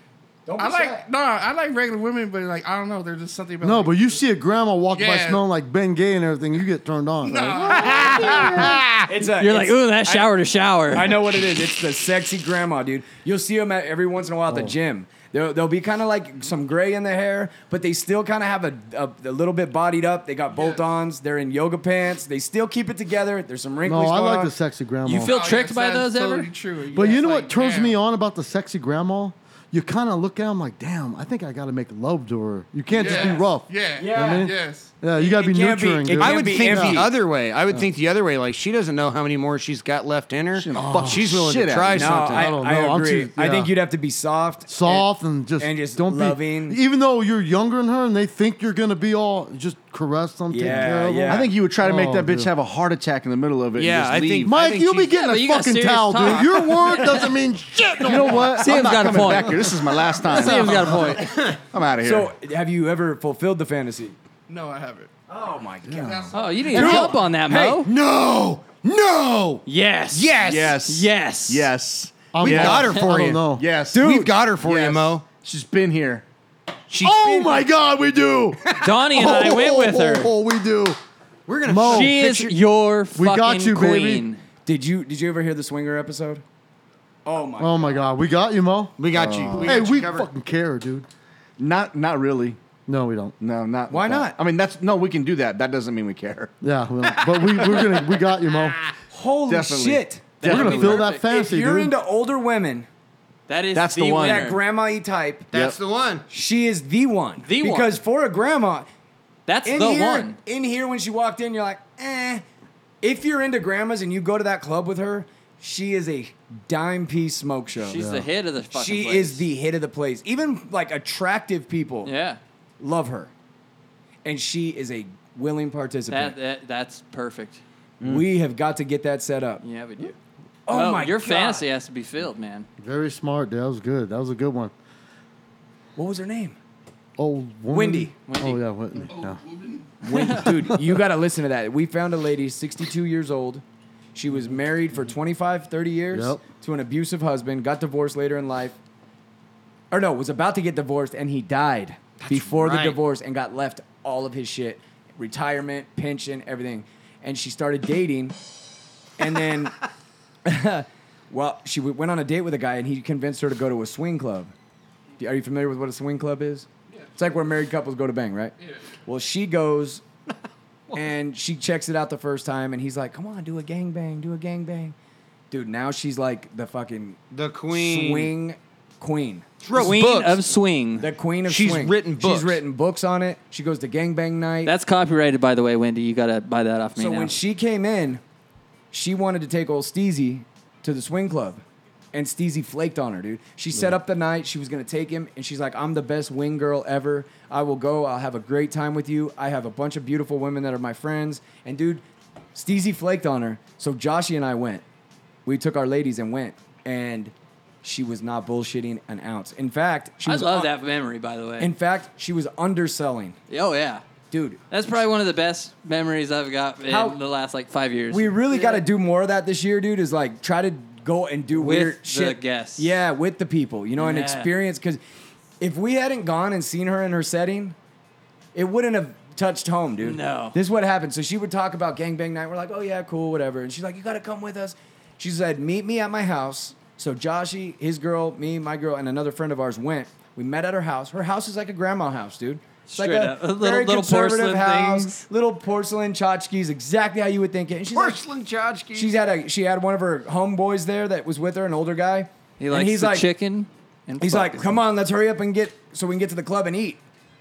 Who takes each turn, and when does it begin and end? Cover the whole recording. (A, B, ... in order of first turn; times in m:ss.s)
0:00.4-0:01.0 A
0:00.6-0:04.2 B
0:03.6-0:08.8 C
0:04.9-0:05.4 B
0:07.2-0:08.6 B
0:08.0-0:08.8 D
0:08.0-0:08.4 A
0:09.0-0:10.3 A
0:09.2-0:11.4 E
0:10.9-0:24.5 A
0:14.5-0:14.7 C
0:20.5-0:20.8 B
0:23.8-0:25.4 C
0:25.0-0:26.5 E
0:25.2-0:28.0 B
0:26.9-0:37.1 C
0:32.9-0:34.9 B
0:33.0-0:33.4 A
0:34.0-0:34.5 A
0:35.2-0:37.1 A
0:36.2-0:42.5 D
0:40.5-0:42.4 F
0:40.8-0:41.3 C
0:41.9-0:45.1 A
0:42.3-0:43.7 C
0:44.7-0:52.5 C
0:45.6-0:46.8 A
0:50.5-0:51.5 A
0:50.7-0:54.5 F
0:53.7-0:55.2 D
0:54.4-0:58.7 C
0:55.1-0:57.3 E
0:58.0-1:02.3 F
0:58.4-1:01.3 E
0:59.3-0:59.6 C
1:00.3-1:01.1 C
1:01.2-1:01.6 D
1:02.0-1:04.2 A
1:04.5-1:05.1 B
1:05.3-1:07.8 A
1:05.9-1:07.2 C
1:06.0-1:06.5 B
1:06.3-1:07.9 E
1:07.7-1:10.8 D
1:09.6-1:11.7 E
1:10.4-1:14.0 F
1:12.3-1:13.6 C
1:12.4-1:13.4 D
1:13.9-1:14.3 A
1:13.9-1:15.2 D
1:14.6-1:16.2 F
1:16.9-1:17.6 D
1:17.0-1:21.0 C
1:18.8-1:20.3 E
1:21.5-1:22.5 D
1:21.6-1:22.2 C
1:21.8-1:24.4 E
1:23.2-1:24.2 C
1:24.6-1:26.4 A
1:27.2-1:28.0 A
1:27.6-1:31.1 C
1:29.0-1:30.3 D
1:29.1-1:29.7 F
1:31.6-1:32.6 F
1:32.9-1:33.3 C
1:33.4-1:36.5 F
1:33.9-1:34.4 A
1:36.6-1:38.8 C
1:37.6-1:37.9 D
1:39.1-1:42.9 A
1:39.5-1:41.0 F
1:40.4-1:41.2 E
1:40.4-1:41.9 C
1:43.5-1:44.6 E
1:43.7-1:44.5 F
1:44.1-1:45.5 A
1:45.5-1:46.2 D
1:46.3-1:48.9 A
1:47.4-1:48.0 E
1:49.4-1:50.4 E
1:49.6-1:52.4 A
1:53.0-1:58.0 A
1:57.8-1:59.4 E
1:58.0-1:58.3 C
1:58.7-2:02.1 A
2:02.0-2:02.4 E
2:02.8-2:03.3 A
2:04.2-2:06.4 A
2:06.1-2:07.6 E
2:08.0-2:09.6 A
2:09.6-2:10.1 E
2:10.7-2:11.6 A
2:10.7-2:12.7 E
2:12.8-2:14.7 C
2:16.0-2:16.6 A
2:17.2-2:19.4 C
2:17.7-2:18.1 A
2:18.2-2:18.6 E
2:19.1-2:20.0 B
2:20.0-2:23.6 A
2:20.1-2:20.7 E
2:24.1-2:28.8 A
2:26.1-2:26.4 C
2:29.9-2:38.4 A
2:32.2-2:33.0 D
2:39.2-2:39.7 A
2:40.4-2:44.5 A
2:45.2-2:50.0 A
2:48.6-2:48.9 B
2:50.9-2:54.9 A
2:55.5-2:57.2 A
2:57.3-2:58.3 D
2:57.7-2:59.4 A
2:59.6-3:00.4 D
2:59.7-3:01.1 E
3:01.0-3:04.7 A
3:01.4-3:02.6 D
3:04.6-3:07.4 E
3:07.0-3:08.2 A
3:08.9-3:11.6 A
3:12.1-3:22.0 A
3:22.5-3:24.8 A
3:25.4-3:30.7 A
3:30.2-3:31.7 E
3:31.6-3:33.4 A
3:33.5-3:34.0 E
3:34.3-3:34.6 A
3:34.7-3:38.8 E
3:36.9-3:37.2 A
3:38.1-3:45.0 A
3:41.5-3:43.0 E
3:44.0-3:44.5 E
3:45.6-3:47.8 A
3:48.5-4:08.2 A
3:50.0-3:50.6 E
4:02.9-4:05.3 E
4:07.9-4:09.2 D
4:08.9-4:13.3 A
4:12.6-4:14.8 E
4:14.2-4:17.0 A